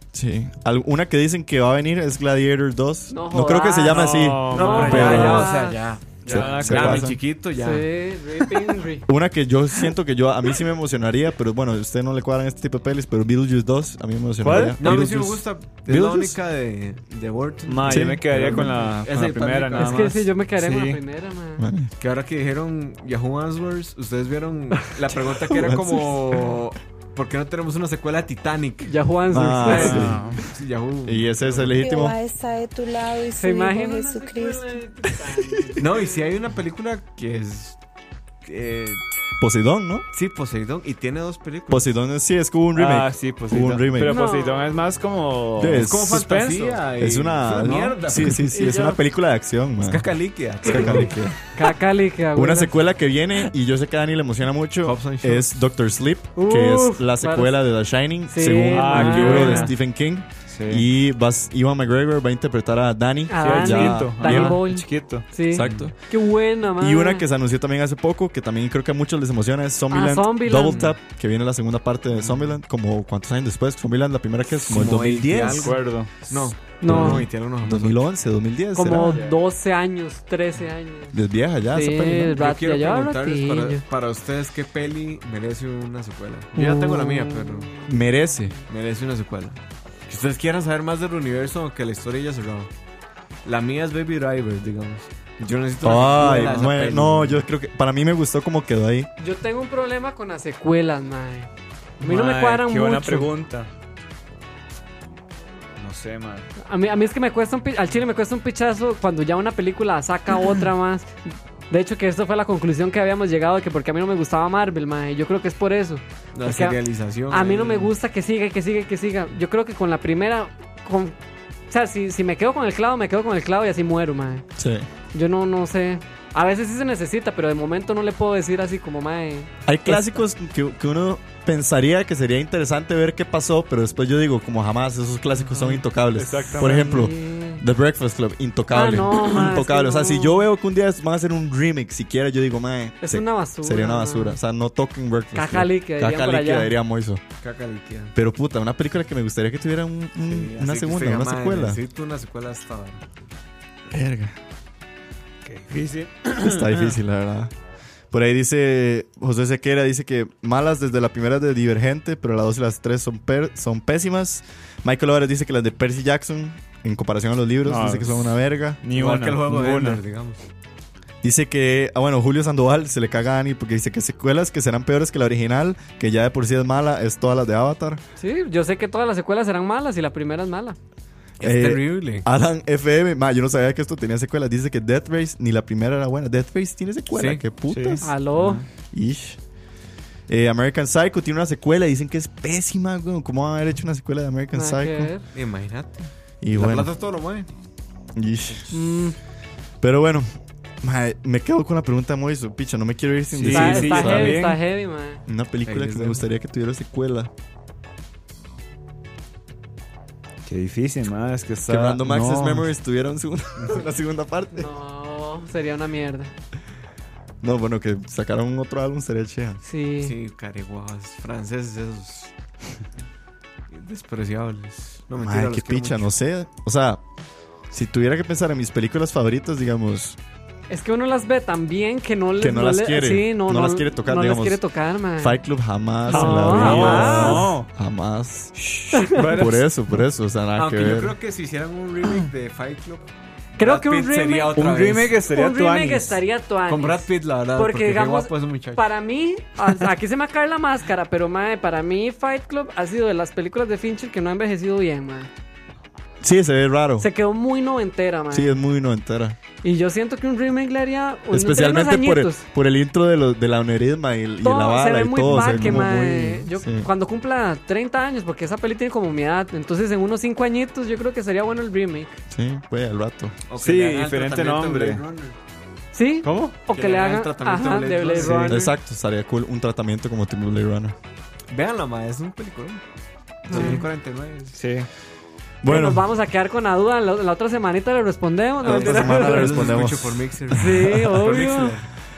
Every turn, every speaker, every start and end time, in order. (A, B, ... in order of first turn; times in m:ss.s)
0:00.1-0:05.6 A
0:03.1-0:05.8 B
0:03.9-0:05.5 C
0:04.5-0:07.9 D
0:06.2-0:07.2 C
0:06.2-0:07.2 A
0:07.6-0:09.1 B
0:09.1-0:16.4 A
0:14.4-0:14.8 C
0:14.8-0:19.9 D
0:17.7-0:21.0 C
0:17.9-0:19.7 A
0:19.8-0:21.6 B
0:21.6-0:21.9 A
0:22.0-0:28.9 D
0:25.5-0:26.5 A
0:28.8-0:30.0 B
0:29.3-0:30.3 A
0:29.7-0:30.4 C
0:29.7-0:31.8 D
0:31.0-0:32.2 A
0:31.8-0:34.8 E
0:33.3-0:35.9 B
0:35.3-0:35.8 A
0:35.8-0:37.8 D
0:38.4-0:39.0 D
0:39.4-0:40.1 A
0:40.1-0:41.9 D
0:41.7-0:44.2 A
0:42.7-0:46.8 C
0:44.0-0:44.8 B
0:45.6-0:46.4 A
0:45.8-0:48.4 D
0:46.9-0:51.4 A
0:48.5-0:49.0 B
0:49.8-0:51.2 D
0:51.5-0:52.7 B
0:52.4-1:04.6 A
0:54.8-0:55.6 D
0:56.4-0:57.6 B
0:58.3-0:59.7 B
0:58.7-0:59.8 C
1:00.5-1:00.9 C
1:03.3-1:07.2 B
1:03.4-1:05.8 C
1:05.5-1:06.0 A
1:06.8-1:15.8 A
1:09.9-1:10.9 B
1:10.6-1:11.0 D
1:14.5-1:18.0 D
1:15.5-1:16.5 C
1:16.8-1:17.2 B
1:16.8-1:19.2 A
1:18.8-1:21.2 B
1:21.1-1:22.3 A
1:21.7-1:23.8 B
1:22.2-1:27.8 D
1:26.6-1:28.0 B
1:27.9-1:28.6 A
1:28.7-1:32.7 D
1:33.4-1:37.4 D
1:35.8-1:39.1 A
1:39.2-1:41.5 B
1:42.0-1:43.7 C
1:42.0-1:43.3 B
1:45.8-1:46.5 C
1:46.6-1:51.2 B
1:51.7-2:01.2 B
1:56.3-1:57.9 D
2:01.7-2:04.4 B
2:04.6-2:04.9 A
2:05.1-2:10.2 B
2:09.7-2:27.2 A
2:16.1-2:17.1 C
2:16.6-2:17.6 B
2:18.7-2:20.4 B
2:23.0-2:24.4 B
2:25.3-2:26.7 B
2:27.4-2:28.1 D
2:28.2-2:31.8 A
2:30.3-2:33.0 D
2:33.9-2:34.4 A
2:35.4-2:37.0 C
2:36.4-2:37.5 A
2:38.1-2:48.8 A
2:47.6-2:50.0 C
2:48.9-2:50.4 D
2:51.2-2:58.0 A
2:58.2-3:00.8 B
3:01.4-3:08.2 A
3:01.4-3:02.3 D
3:07.1-3:07.4 D
3:07.7-3:08.7 C
3:08.0-3:08.6 B
3:08.9-3:09.4 A
3:10.3-3:15.1 A
3:14.5-3:15.2 B
3:15.3-3:17.5 D
3:16.4-3:16.9 A
3:18.2-3:18.9 A
3:18.7-3:19.2 B
3:19.8-3:20.3 A
3:20.8-3:24.4 A
3:23.3-3:24.6 C
3:23.5-3:25.2 B
3:25.3-3:27.3 A
3:25.7-3:26.3 D
3:30.5-3:32.7 C
3:31.7-3:34.7 A
3:34.6-3:36.3 B
3:37.4-3:39.6 A
3:39.6-3:40.2 B
3:40.0-3:42.3 D
3:43.7-3:46.1 D
3:45.2-3:47.0 A
3:47.7-3:50.2 A
3:50.7-3:55.4 B
3:52.4-3:54.6 A
3:55.2-3:58.5 A
3:56.1-3:57.5 B
3:56.1-3:57.7 C
3:58.6-3:59.6 C
3:59.0-3:59.2 B
3:59.2-4:01.2 A
4:00.6-4:05.2 D
4:03.6-4:04.6 B
4:04.6-4:06.2 C
4:05.3-4:15.3 B
4:06.7-4:08.8 D
4:16.2-4:17.1 A
4:17.0-4:18.5 B
4:18.3-4:19.4 A
4:19.6-4:22.4 B
4:21.3-4:26.9 A
4:24.4-4:32.2 B
4:32.3-4:33.4 A
4:33.5-4:35.4 D
4:33.6-4:35.0 C
4:35.9-4:38.7 B
4:36.2-4:36.6 C
4:36.7-4:38.7 D
4:38.2-4:41.0 A
4:41.5-4:42.8 D
4:43.5-4:43.8 B
4:43.5-4:44.6 D
4:44.5-4:44.9 C
4:45.6-4:46.1 A
4:45.7-4:49.7 B
4:48.6-4:51.9 D
4:48.6-4:51.0 A
4:50.5-4:51.8 B